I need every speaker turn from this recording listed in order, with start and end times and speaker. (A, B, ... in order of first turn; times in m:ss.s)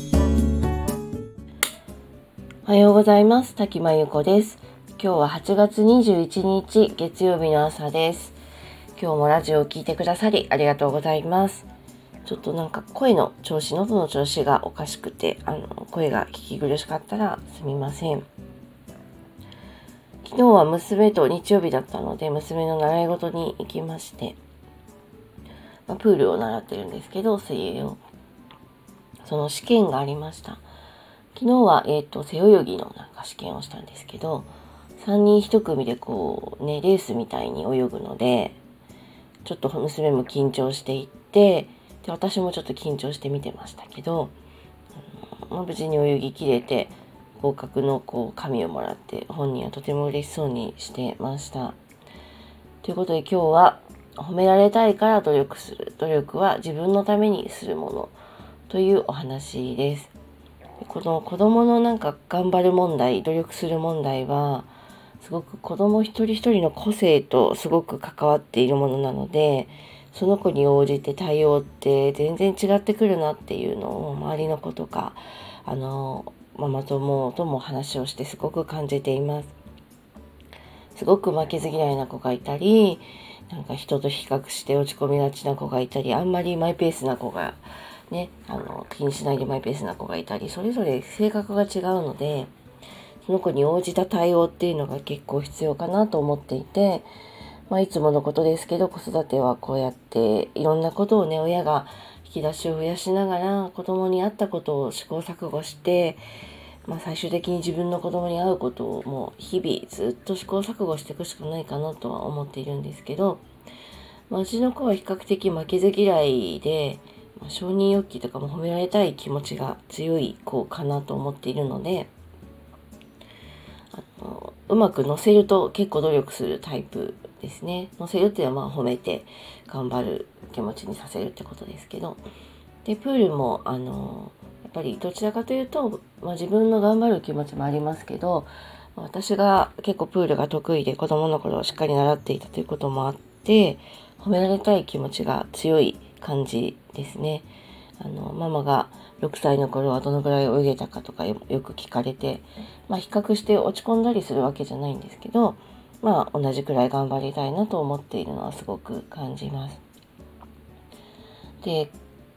0:02.7-0:08.4 A
0:09.0-0:11.7 A
0:12.2-0:18.3 A
0:20.2-0:24.4 A
0:25.9-0:28.0 A
0:29.2-0:30.6 A
0:31.4-0:38.6 A
0:39.4-0:44.3 A
0:45.5-0:51.8 A
0:52.8-0:58.2 A
0:58.7-1:00.1 A
1:00.8-1:19.5 A
1:20.9-1:32.5 A
1:33.2-1:37.1 A
1:37.7-1:46.2 A
1:46.9-1:53.4 A
1:54.3-2:02.1 A
2:03.9-2:12.2 A
2:12.8-2:27.5 A
2:28.0-2:39.8 A
2:41.6-2:41.9 A